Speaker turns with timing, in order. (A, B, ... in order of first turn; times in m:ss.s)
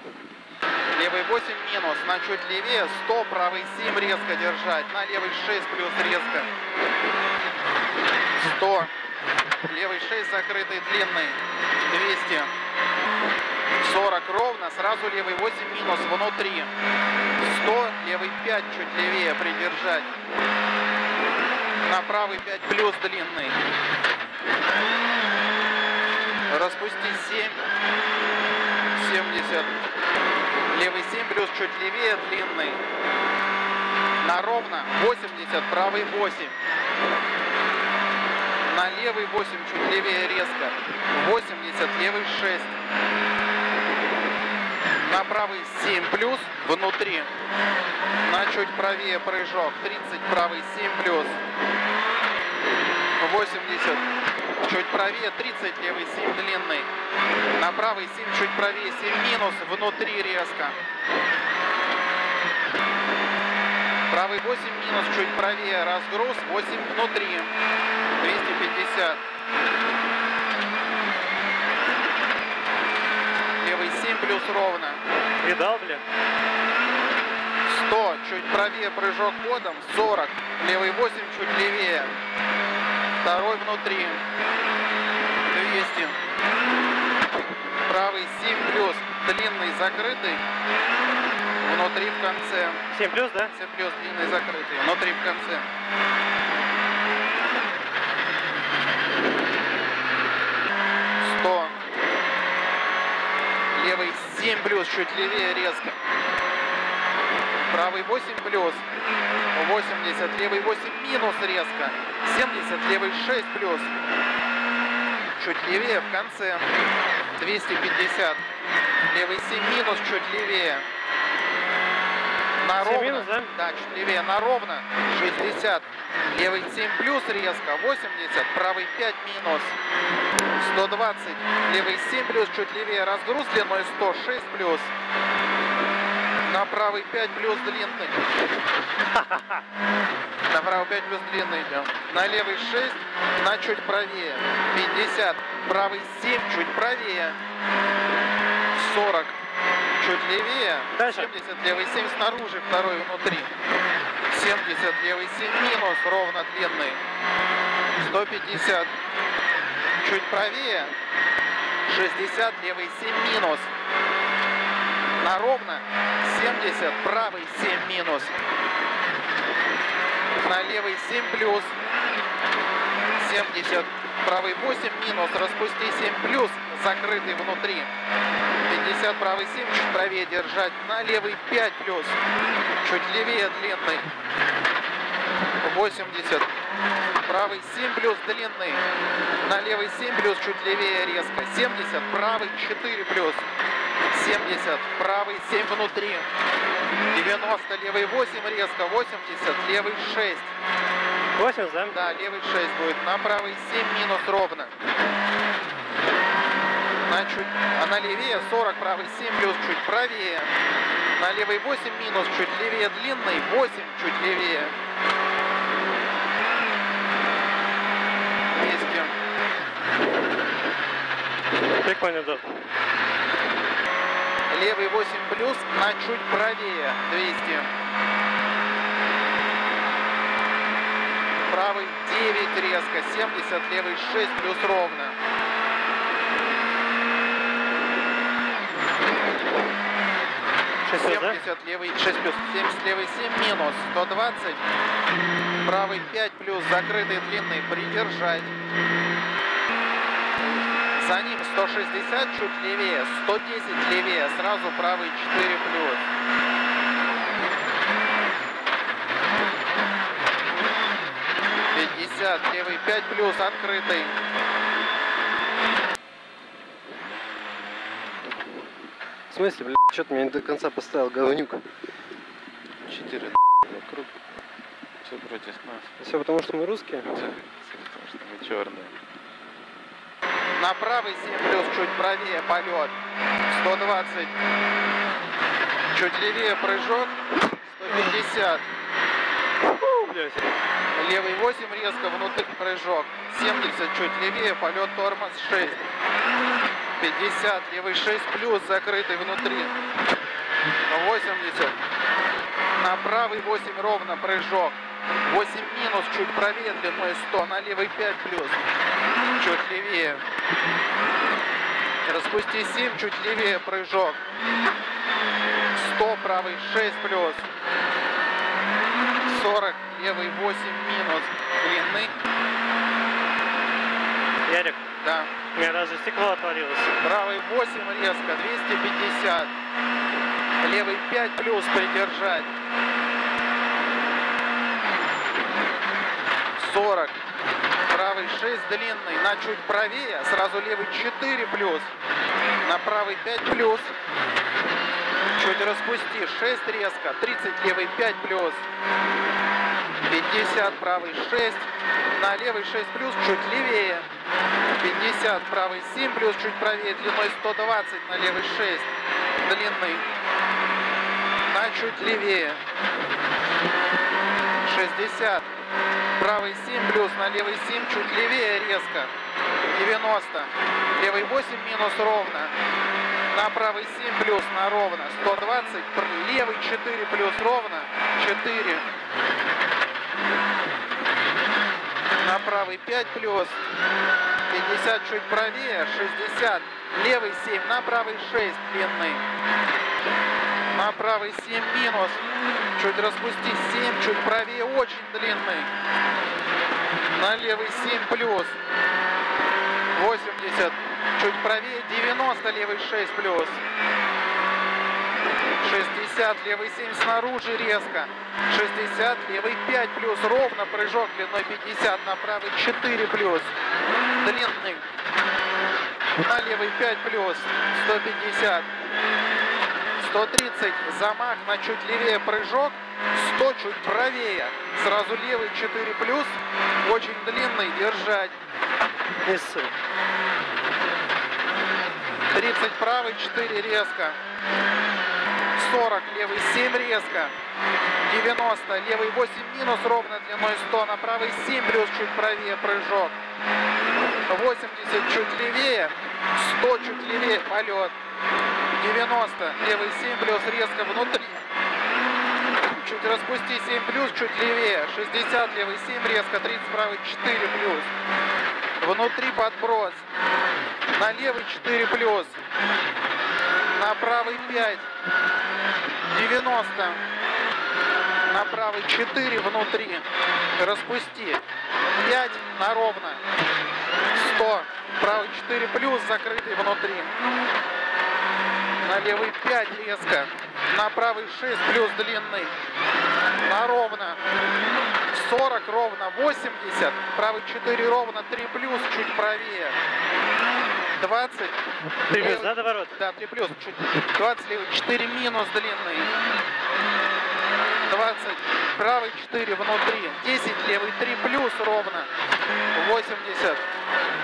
0:01.0-0:06.5 A
0:08.4-0:08.9 A
0:09.6-0:12.5 A
0:13.8-0:16.7 A
0:17.4-0:20.2 A
0:21.8-0:23.6 A
0:26.5-0:27.6 A
0:29.0-0:29.7 A
0:30.7-0:32.8 A
0:34.2-0:36.6 A
0:38.7-0:42.8 A
0:45.0-0:47.3 A
0:48.2-0:51.4 A
0:53.2-0:54.0 A
0:54.6-0:56.9 A
0:57.6-1:00.8 A
1:04.1-1:07.5 A
1:08.2-1:09.2 A
1:13.6-1:15.0 A
1:15.4-1:16.0 B
1:17.7-1:22.2 A
1:23.2-1:24.2 A
1:25.5-1:26.2 A
1:27.9-1:30.4 A
1:31.6-1:32.8 A
1:32.9-1:33.5 B
1:33.5-1:35.7 A
1:41.2-1:41.8 A
1:43.8-1:46.0 A
1:47.7-1:48.9 A
1:49.5-1:53.9 A
1:55.4-1:56.7 A
1:57.4-1:58.4 A
1:59.1-2:00.9 A
2:02.6-2:09.8 A
2:02.8-2:03.5 B
2:10.6-2:14.9 A
2:16.4-2:18.2 A
2:19.1-2:19.6 B
2:20.5-2:27.4 A
2:28.7-2:29.4 A
2:30.0-2:33.5 A
2:31.0-2:31.3 B
2:34.3-2:37.0 A
2:38.0-2:38.9 A
2:40.0-2:40.9 A
2:41.9-2:43.7 A
2:45.2-2:48.4 A
2:50.4-2:51.8 A
2:53.2-2:57.9 A
2:58.6-3:02.2 A
3:02.8-3:04.1 A
3:05.6-3:06.5 A
3:07.2-3:08.8 A
3:09.4-3:13.5 A
3:14.1-3:16.3 A
3:17.1-3:20.5 A
3:21.4-3:22.0 B
3:21.9-3:24.7 A
3:27.0-3:30.5 A
3:31.2-3:34.8 A
3:38.6-3:39.1 A
3:41.8-3:42.4 B
3:44.5-3:47.7 A
3:51.5-3:55.2 A
4:00.8-4:01.4 B
4:00.9-4:04.6 A
4:05.6-4:08.5 A
4:10.5-4:16.0 A
4:21.7-4:24.2 A
4:29.3-4:31.6 B
4:32.9-4:34.1 C
4:35.0-4:35.9 C
4:36.0-4:37.1 B
4:37.1-4:38.9 C
4:40.6-4:43.0 A
4:43.5-4:44.3 A
4:45.9-4:47.2 A
4:47.8-4:48.6 A
4:49.7-4:50.4 B
4:50.9-4:55.8 A
4:57.0-4:59.7 A
5:00.9-5:01.8 A
5:02.8-5:08.6 A
5:09.4-5:10.2 A
5:12.1-5:14.2 A
5:15.8-5:17.5 A
5:19.2-5:22.1 A
5:24.5-5:24.8 B
5:25.0-5:25.3 A
5:25.5-5:27.0 B
5:27.0-5:29.5 A
5:30.6-5:32.5 A
5:36.6-5:37.2 A
5:37.9-5:41.9 A
5:42.6-5:43.9 A
5:45.4-5:48.6 A
5:50.1-5:54.1 A
5:54.8-5:58.9 A
5:59.4-6:00.0 A
6:01.5-6:02.6 A
6:04.6-6:05.5 A
6:06.2-6:09.1 A
6:09.7-6:12.5 A
6:13.3-6:18.8 A
6:22.2-6:23.6 A
6:24.5-6:29.2 A
6:30.7-6:35.7 A
6:37.1-6:38.6 A
6:39.9-6:43.6 A
6:45.6-6:53.5 A
6:54.2-6:54.9 A
6:56.2-6:58.7 A
7:00.0-7:08.4 A
7:09.2-7:09.7 B
7:12.3-7:14.2 A
7:15.6-7:17.4 A
7:18.1-7:23.2 A
7:24.3-7:28.0 A
7:28.8-7:31.4 A
7:32.7-7:37.9 A
7:38.8-7:40.0 A
7:40.9-7:42.4 A
7:43.7-7:44.9 A
7:46.1-7:47.0 A
7:48.3-7:50.1 A
7:50.6-7:51.4 A
7:52.0-7:53.2 A
7:54.1-7:57.1 A
7:58.8-8:02.5 A
8:03.4-8:04.2 A
8:05.1-8:09.8 A
8:11.0-8:11.6 A
8:12.1-8:12.9 B
8:12.1-8:16.1 A
8:17.8-8:22.1 A
8:22.8-8:23.6 A